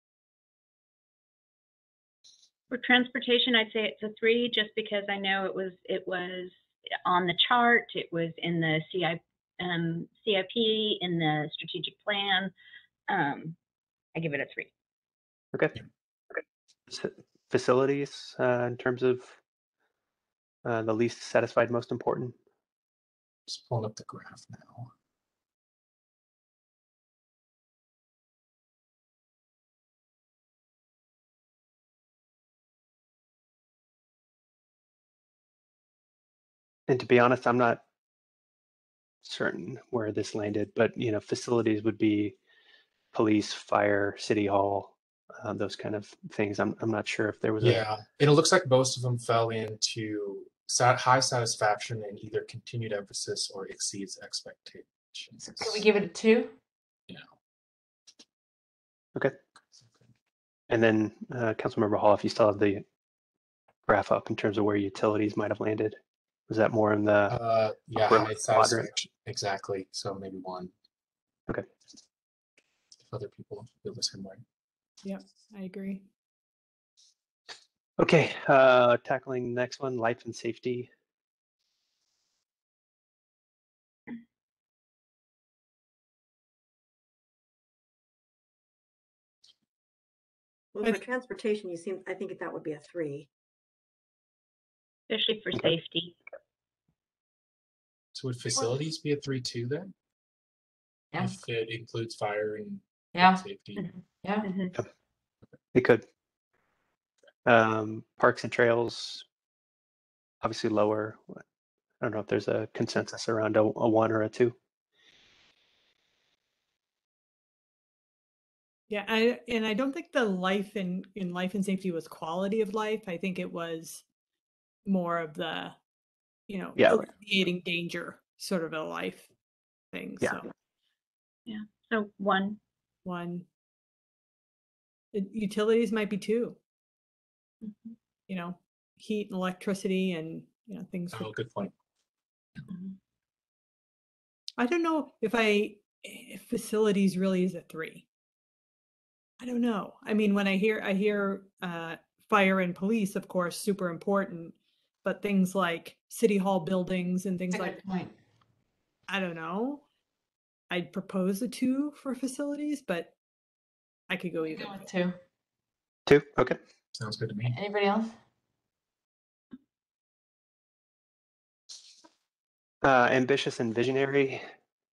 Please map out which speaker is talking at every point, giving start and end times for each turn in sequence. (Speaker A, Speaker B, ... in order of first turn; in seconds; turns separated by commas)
Speaker A: 2.7-12.5, Speaker A: 13.1-13.6, Speaker A: 14.1-14.7, Speaker B: 16.9-19.4, Speaker B: 20.6-22.3, Speaker C: 23.5-24.9, Speaker B: 36.9-37.8, Speaker B: 39.2-42.4, Speaker B: 43.1-47.9, Speaker C: 47.6-55.9, Speaker D: 55.4-56.5, Speaker C: 59.8-60.0, Speaker B: 60.7-62.8, Speaker B: 63.9-66.0, Speaker B: 66.5-67.4, Speaker C: 67.3-70.7, Speaker B: 68.0-68.9, Speaker C: 73.0-74.4, Speaker E: 75.0-76.0, Speaker B: 78.0-80.9, Speaker F: 90.7-93.3, Speaker A: 95.1-96.2, Speaker C: 98.1-99.9, Speaker D: 101.1-101.4, Speaker C: 101.2-103.9, Speaker D: 103.1-103.4, Speaker D: 104.2-104.5, Speaker A: 104.5-104.7, Speaker B: 105.7-106.0, Speaker B: 107.5-109.2, Speaker B: 110.4-111.4, Speaker B: 112.0-114.5, Speaker E: 118.9-124.0, Speaker E: 124.8-125.8, Speaker E: 126.5-129.3, Speaker B: 126.8-127.1, Speaker E: 129.9-130.5, Speaker A: 131.4-132.6, Speaker E: 133.1-133.4, Speaker E: 135.1-136.6, Speaker E: 138.3-141.3, Speaker C: 141.1-141.7, Speaker E: 144.6-148.1, Speaker E: 149.4-157.8, Speaker D: 157.5-158.1, Speaker E: 159.1-159.8, Speaker E: 160.7-163.1, Speaker E: 164.1-164.8, Speaker D: 164.4-165.2, Speaker B: 166.1-166.6, Speaker C: 166.9-167.6, Speaker D: 167.4-168.1, Speaker B: 172.8-174.4